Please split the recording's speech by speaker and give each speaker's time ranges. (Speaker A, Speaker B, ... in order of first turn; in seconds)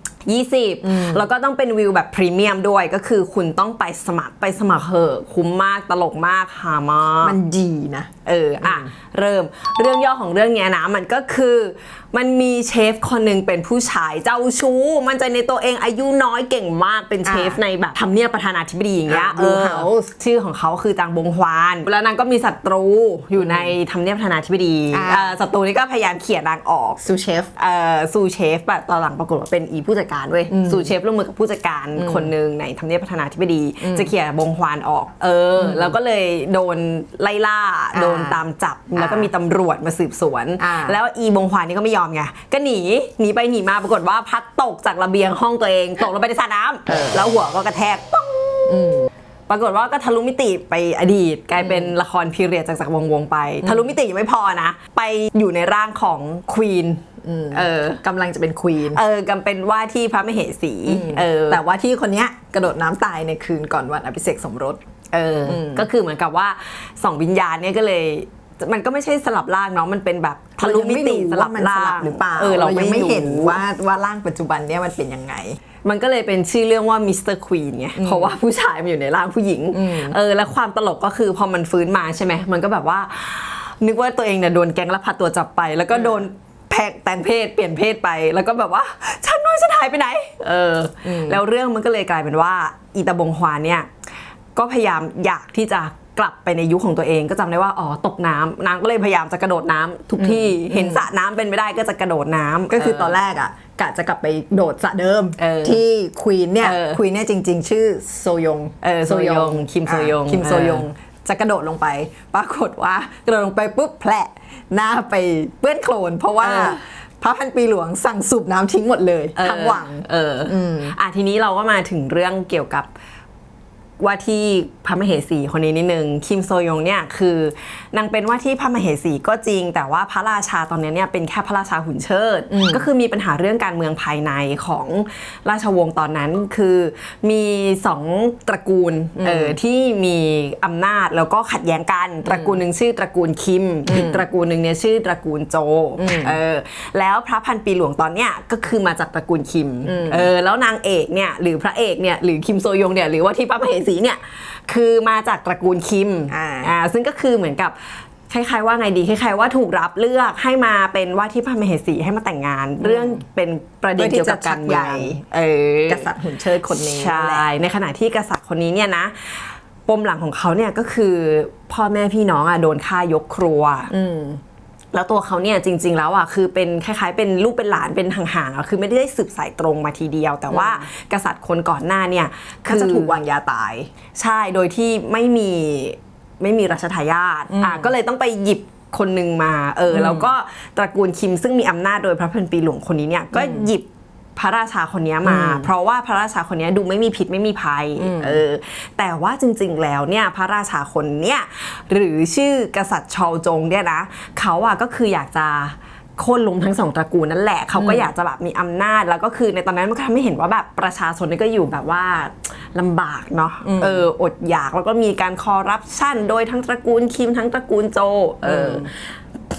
Speaker A: 0.2-7.3, 8.2-27.0, 27.6-48.9, 49.5-58.0, 58.9-61.6, 65.1-73.6, 75.8-93.9, 94.5-103.2, 105.4-105.8, 106.6-107.0, 108.8-110.9, 116.4-116.8, 119.4-122.9, 124.0-157.8, 158.3-166.1, 166.7-173.9, 174.9-183.1, 184.2-219.2
Speaker B: 0.8-1.2, 7.2-8.1, 8.6-8.9, 17.2-17.6, 19.1-20.1, 23.4-23.7, 24.9-25.3, 27.0-27.5, 30.5-30.9, 32.0-32.3, 33.8-34.1, 35.6-35.9, 37.9-38.4, 39.0-39.3, 40.6-41.0, 46.9-47.2, 48.7-49.1, 53.6-53.9, 57.2-59.0, 60.9-64.8, 65.5-65.9, 70.6-75.6, 78.0-78.3, 79.7-80.2, 91.0-91.4, 100.2-101.0, 102.7-121.0, 132.5-132.9, 139.2-139.6, 142.2-142.6, 143.9-144.2, 146.0-146.4, 149.8-150.3, 156.3-156.7, 162.8-163.2, 164.0-165.2, 165.9-167.4, 173.9-174.4, 180.5-180.8, 182.7-183.9, 187.5-187.9, 189.9-190.3, 193.3-193.7, 195.2-195.7, 198.0-198.4, 207.8-208.1, 213.6-214.1, 218.4-218.9